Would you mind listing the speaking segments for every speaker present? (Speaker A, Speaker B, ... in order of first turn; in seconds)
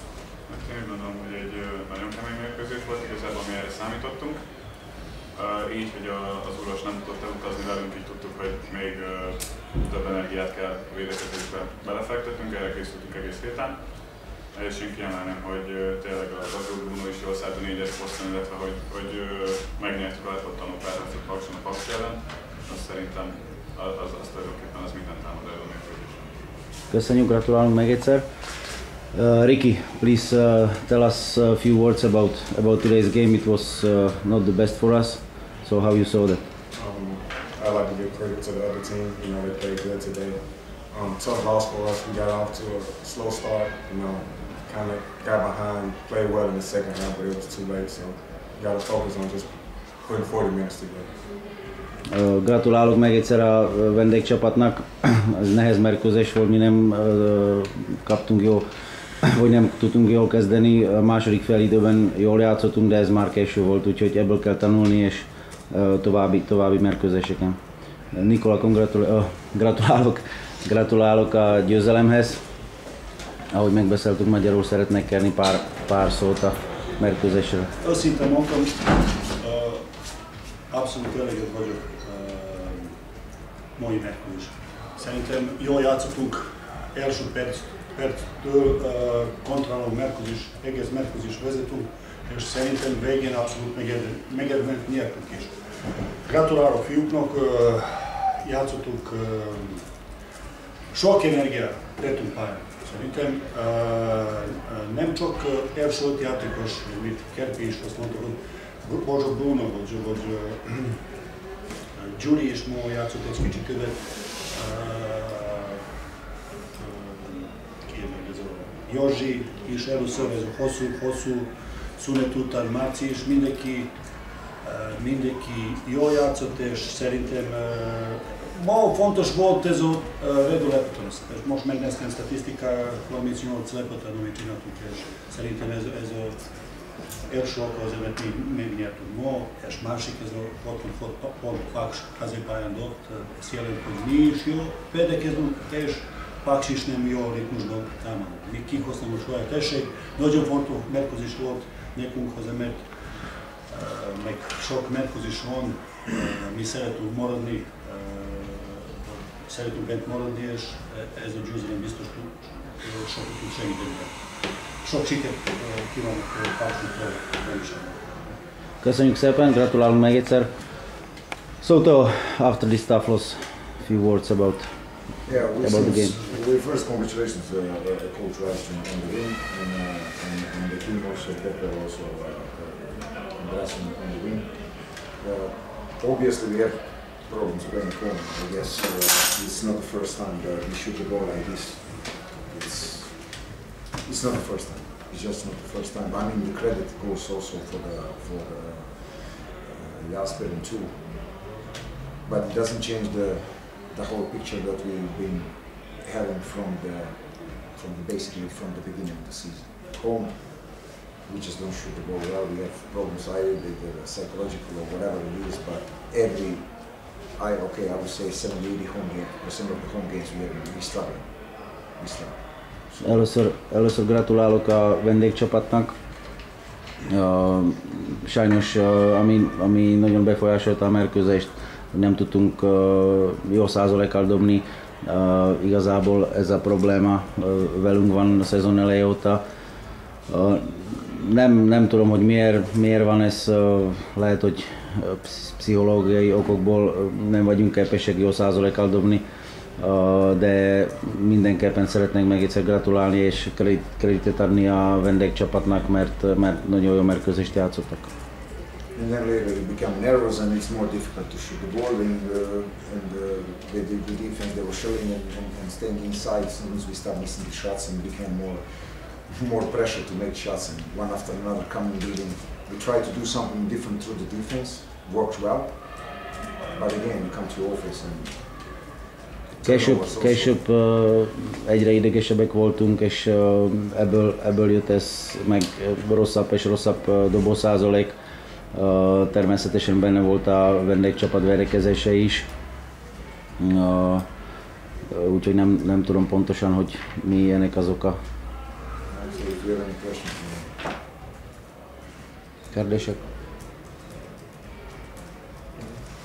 Speaker A: 0.5-4.5, 5.3-26.3
Speaker B: 26.9-28.2, 29.1-36.4, 52.1-58.7, 59.2-67.6, 68.1-72.4, 73.5-77.7, 168.8-170.5, 171.6-174.7, 175.6-176.2, 223.0-225.9, 227.1-239.4, 240.3-249.2, 249.8-258.1, 279.6-288.1, 288.7-292.5, 293.6-294.2, 295.1-298.2, 302.7-303.2
Speaker C: 36.8-51.2
Speaker D: 77.8-79.8, 80.7-82.9, 83.8-95.5, 96.1-99.8, 100.9-111.0, 112.0-115.8, 116.8-123.9, 124.6-136.4, 137.3-152.8, 153.7-168.0
Speaker E: 175.3-201.1, 202.2-222.4, 258.9-278.4, 279.6-280.6, 299.1-300.7